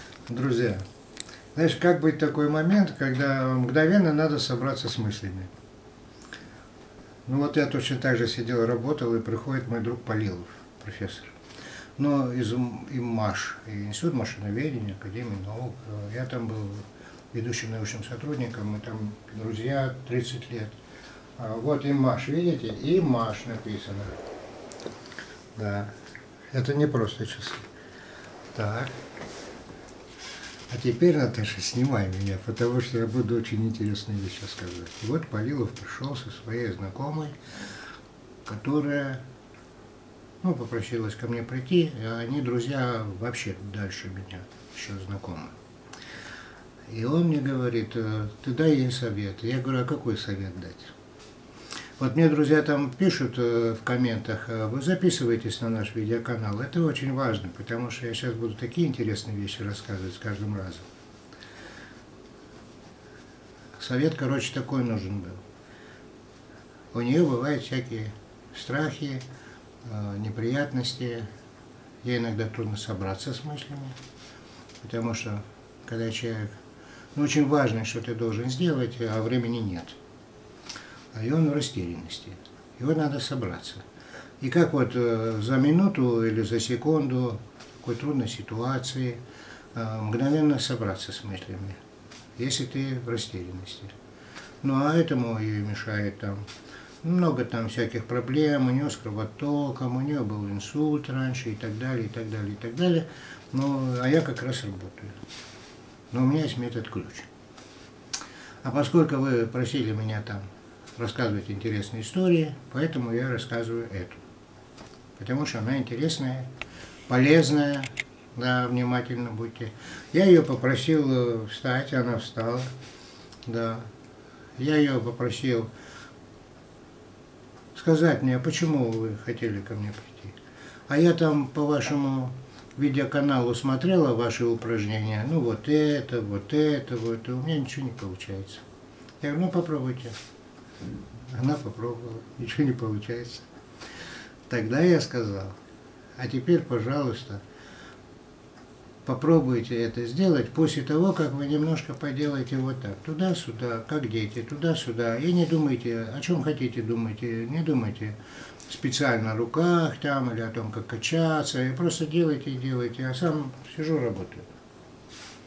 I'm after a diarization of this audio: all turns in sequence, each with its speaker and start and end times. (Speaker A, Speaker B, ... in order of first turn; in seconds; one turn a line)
Speaker A: 0.3-0.8
Speaker A: 1.6-5.5
Speaker A: 7.3-11.3
Speaker A: 12.0-20.8
Speaker A: 21.4-24.1
Speaker A: 25.6-25.9
Speaker A: 26.5-27.6
Speaker A: 28.5-28.9
Speaker A: 30.7-37.4
Speaker A: 38.5-39.2
Speaker A: 40.4-45.5
Speaker A: 46.9-50.9
Speaker A: 52.0-60.9
Speaker A: 63.8-65.4
Speaker A: 66.9-69.2
Speaker A: 69.8-71.3
Speaker A: 72.0-74.0
Speaker A: 74.8-76.5
Speaker A: 77.2-80.0
Speaker A: 81.1-83.8
Speaker A: 84.4-89.2
Speaker A: 89.7-91.8
Speaker A: 92.4-93.9
Speaker A: 94.6-96.4
Speaker A: 97.0-105.2
Speaker A: 106.1-107.3
Speaker A: 108.6-114.2
Speaker A: 115.2-116.5
Speaker A: 117.1-122.7
Speaker A: 123.5-123.9
Speaker A: 124.6-125.7
Speaker A: 127.7-130.4
Speaker A: 130.9-138.6
Speaker A: 139.2-140.2
Speaker A: 141.3-143.5
Speaker A: 144.5-145.6
Speaker A: 146.2-147.4
Speaker A: 149.1-158.2
Speaker A: 158.7-164.5